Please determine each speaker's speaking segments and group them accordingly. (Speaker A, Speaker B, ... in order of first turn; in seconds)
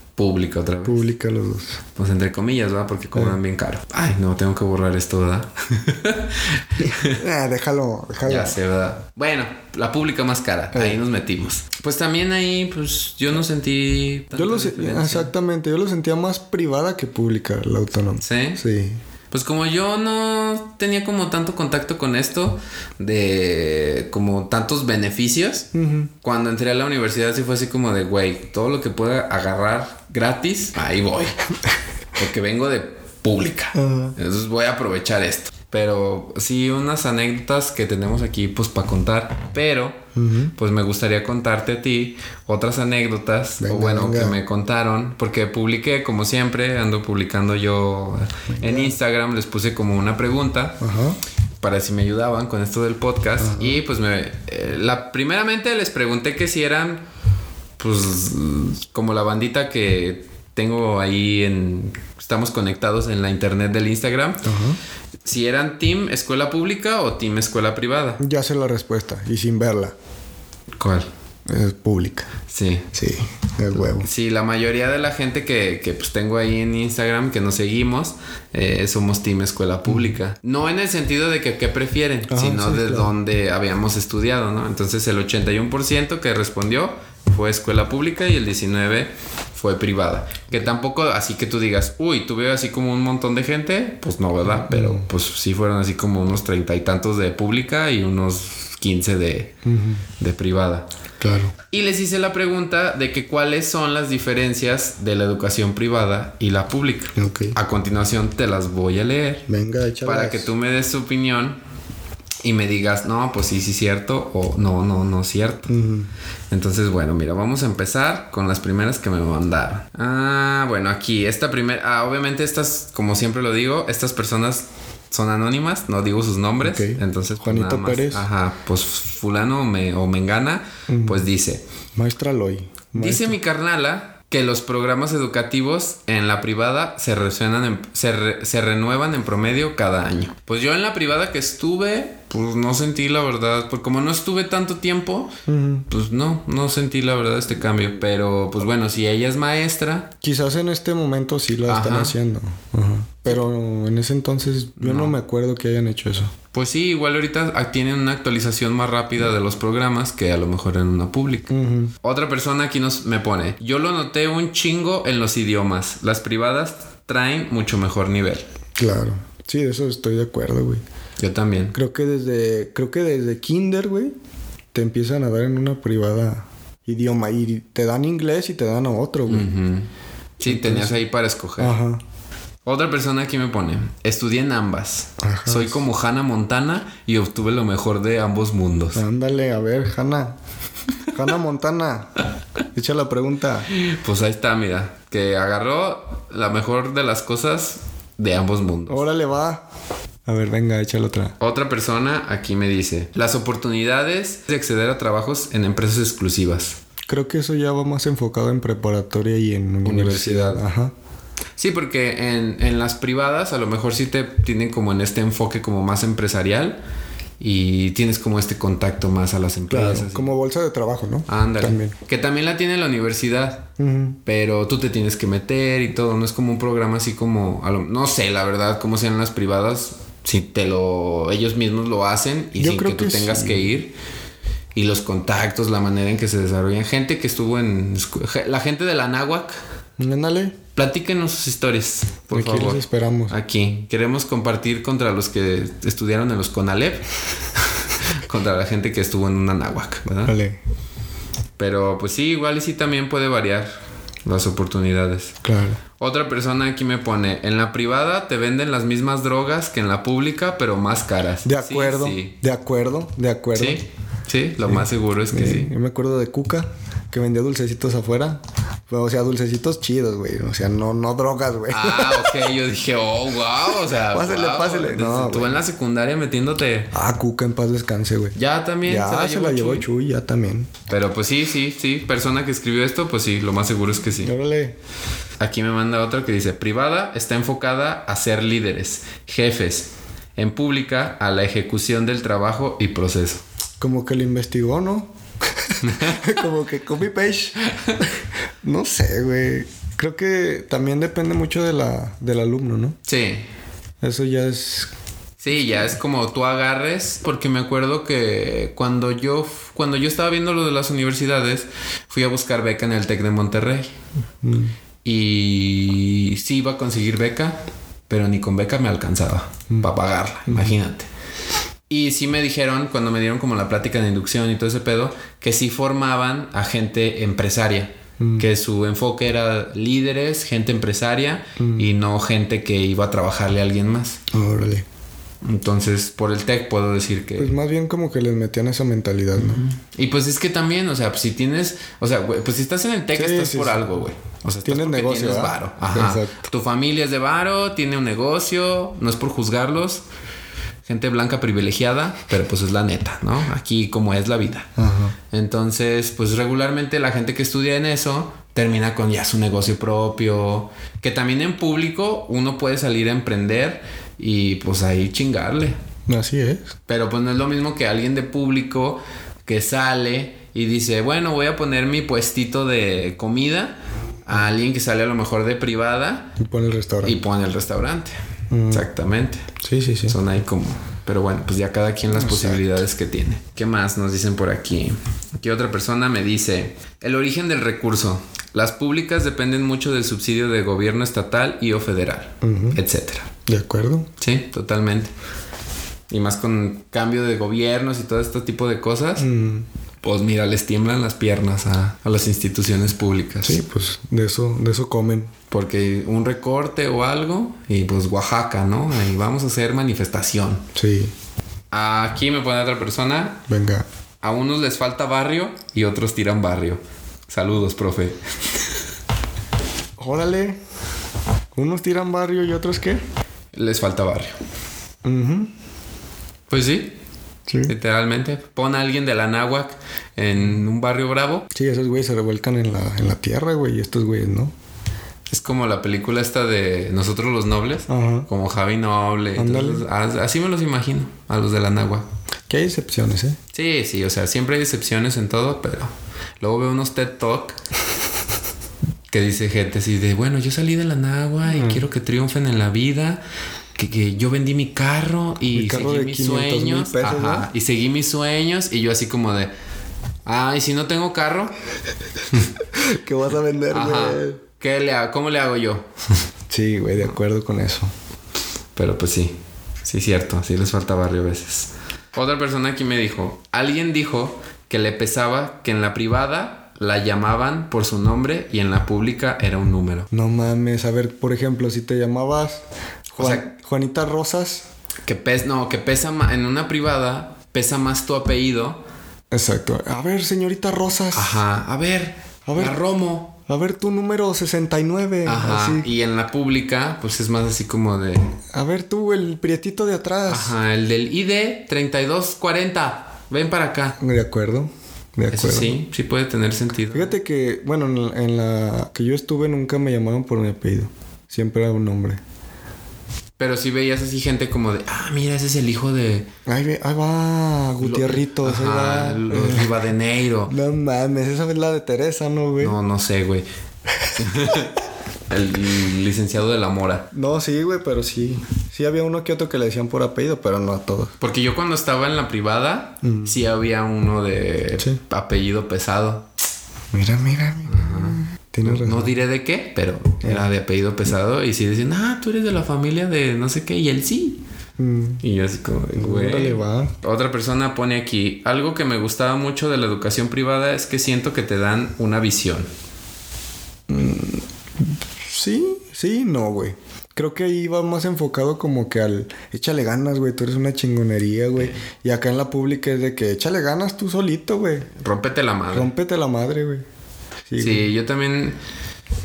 Speaker A: 0.2-1.0, 2.0-7.2, 8.2-15.3, 18.2-18.6, 19.3-25.7, 26.2-31.4, 32.2-40.0, 40.5-50.8, 51.6-57.0, 57.8-64.5, 65.2-68.2, 70.8-71.1, 72.5-72.9, 73.8-99.6, 100.2-100.9, 101.7-109.5, 110.0-111.6, 112.4-115.7, 116.5-131.6, 132.9-145.4, 145.9-150.1, 151.7-152.2, 154.8-155.2, 156.5-168.5, 171.2-171.8, 179.3-181.8, 182.7-189.0, 193.7-199.0, 201.4-206.8, 209.8-210.6, 211.6-216.8, 217.4-220.3, 221.3-233.9, 234.7-239.6, 240.8-247.1, 247.6-250.4, 251.6-253.7, 254.2-255.4, 256.0-262.3, 263.6-265.7, 271.7-276.9, 278.4-279.9, 280.9-284.3, 285.4-293.4, 295.8-296.4, 297.7-298.0, 303.1-303.5, 305.4-313.9, 315.0-321.1, 321.9-334.2, 335.4-337.5, 339.4-350.0, 350.9-354.7, 355.3-365.8, 366.9-376.4, 377.0-378.1, 378.7-379.5, 380.1-393.3, 394.2-395.1, 396.1-399.3, 400.0-403.6, 405.5-410.7, 411.7-413.4, 414.2-418.2, 423.5-424.4, 426.5-426.9, 427.7-431.5, 435.3-442.1, 443.5-447.6, 449.1-453.2, 453.8-459.5, 460.3-461.5, 463.7-465.9, 468.8-480.1, 483.2-483.5, 485.1-488.8, 491.1-493.4, 495.3-498.4, 500.3-504.0, 505.3-507.1, 513.4-516.3, 517.8-520.5, 522.6-523.5, 524.1-527.1, 531.2-536.3, 537.7-544.4, 545.2-552.7, 565.0-565.9, 567.6-568.6
Speaker B: 0.8-1.8, 7.0-8.6, 10.7-11.0, 14.3-19.0, 25.7-26.1, 33.7-34.1, 40.1-40.5, 43.6-44.4, 48.5-48.9, 50.8-51.2, 53.4-53.8, 64.4-64.8, 68.2-70.0, 71.5-72.3, 72.9-74.1, 79.9-80.1, 82.3-83.1, 94.5-95.1, 99.7-100.0, 101.2-101.5, 107.2-107.6, 109.5-110.5, 115.7-116.1, 126.6-128.3, 130.9-131.3, 131.9-133.4, 145.5-145.9, 150.2-156.3, 161.5-161.9, 168.8-170.8, 171.7-174.2, 174.7-179.5, 180.4-181.0, 181.6-182.0, 185.2-185.9, 188.9-190.4, 191.1-192.2, 192.7-193.7, 198.9-199.7, 200.3-201.4, 207.1-210.9, 219.7-221.9, 223.8-224.2, 232.6-233.7, 240.0-240.6, 242.3-243.3, 250.2-250.6, 255.4-255.8, 261.4-263.8, 264.7-272.4, 274.1-275.6, 276.9-280.8, 284.2-284.8, 293.8-298.1, 298.6-303.0, 304.0-304.9, 314.4-314.7, 320.5-320.7, 328.2-328.5, 331.6-331.9, 334.3-334.9, 337.4-339.6, 343.1-343.9, 344.6-346.5, 354.8-355.2, 366.1-366.7, 376.4-377.2, 378.5-378.9, 379.6-380.2, 382.1-382.8, 392.4-392.8, 393.5-394.1, 399.2-399.7, 403.4-405.3, 410.8-411.1, 413.5-413.9, 420.0-420.6, 421.5-423.0, 425.0-425.5, 427.5-427.7, 431.5-434.5, 437.9-438.3, 439.4-439.9, 442.5-443.4, 451.5-451.8, 455.5-457.5, 462.7-464.4, 466.5-467.9, 480.1-484.7, 489.3-491.4, 492.5-492.8, 493.5-495.9, 498.5-500.6, 504.0-505.8, 506.9-512.2, 516.5-519.8, 520.5-522.8, 527.1-531.2, 533.0-533.4, 536.9-539.1, 544.8-545.2, 546.0-546.9, 553.9-564.9, 565.7-566.9, 567.5-567.9